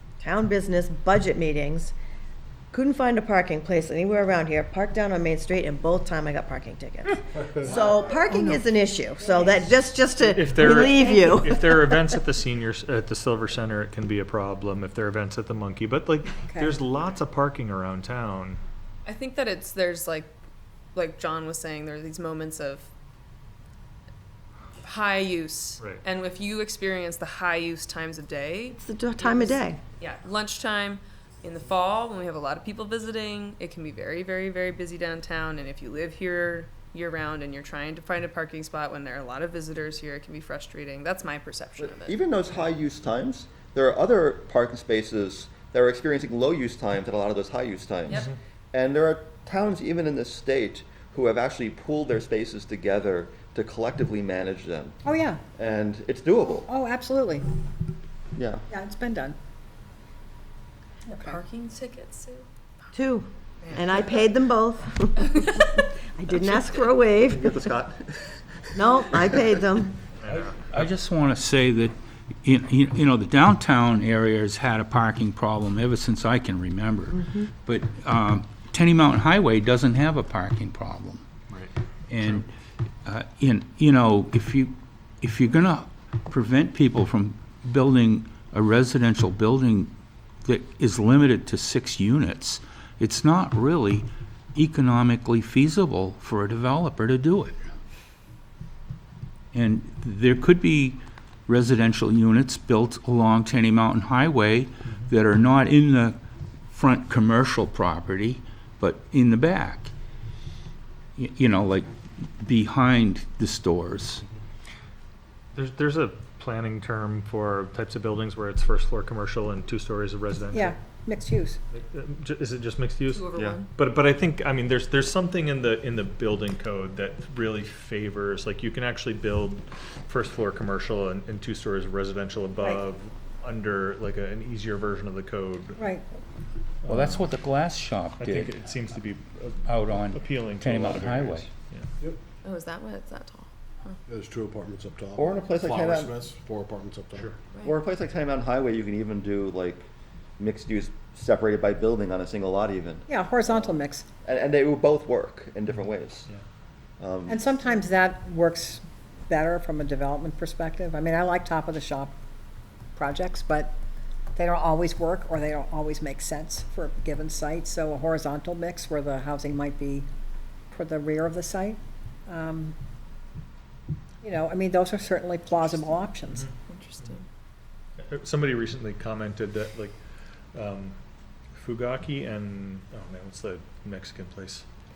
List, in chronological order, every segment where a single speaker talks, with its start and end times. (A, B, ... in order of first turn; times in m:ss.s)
0:00.2-0:01.9 A
0:02.7-0:12.0 A
0:09.2-0:09.6 B
0:10.3-0:18.6 C
0:16.5-0:16.8 B
0:19.0-0:20.3 D
0:20.9-0:22.9 D
0:24.8-0:42.2 D
0:28.7-0:29.8 A
0:41.8-0:55.0 E
0:55.0-0:55.4 B
0:55.6-0:56.7 E
0:56.6-0:57.4 B
0:58.4-0:58.6 E
0:58.7-0:59.4 B
1:01.1-1:03.0 D
1:02.9-1:07.7 A
1:03.6-1:04.1 D
1:06.4-1:06.7 D
1:07.2-1:09.6 E
1:08.7-1:10.0 A
1:10.2-1:10.5 C
1:10.3-1:11.9 F
1:12.4-1:21.2 F
1:17.2-1:17.4 A
1:22.1-1:22.4 F
1:23.0-1:29.9 F
1:30.4-1:37.6 F
1:39.5-1:46.2 F
1:46.7-1:49.9 F
1:51.2-1:54.2 F
1:55.5-2:00.7 C
2:00.5-2:01.6 B
2:01.7-2:03.2 C
2:03.1-2:03.7 D
2:03.7-2:15.8 C
2:15.8-2:16.0 B
2:16.8-2:17.2 C
2:16.9-2:18.7 F
2:18.2-2:21.8 C
2:19.6-2:21.5 F
2:22.4-2:24.0 D
2:24.1-2:27.3 G
2:25.2-2:26.1 E
2:27.5-2:27.8 D
2:27.6-2:29.8 E
2:30.4-2:33.7 E
2:33.1-2:34.0 B
2:34.2-2:36.3 E
2:37.0-2:37.4 E
2:37.3-2:42.1 B
2:42.9-2:43.7 B
2:44.4-2:50.1 B
2:50.7-2:52.7 B
2:54.2-2:56.5 B
2:56.7-2:57.2 D
2:58.0-3:00.0 C
3:00.5-3:01.0 C
3:01.5-3:04.6 C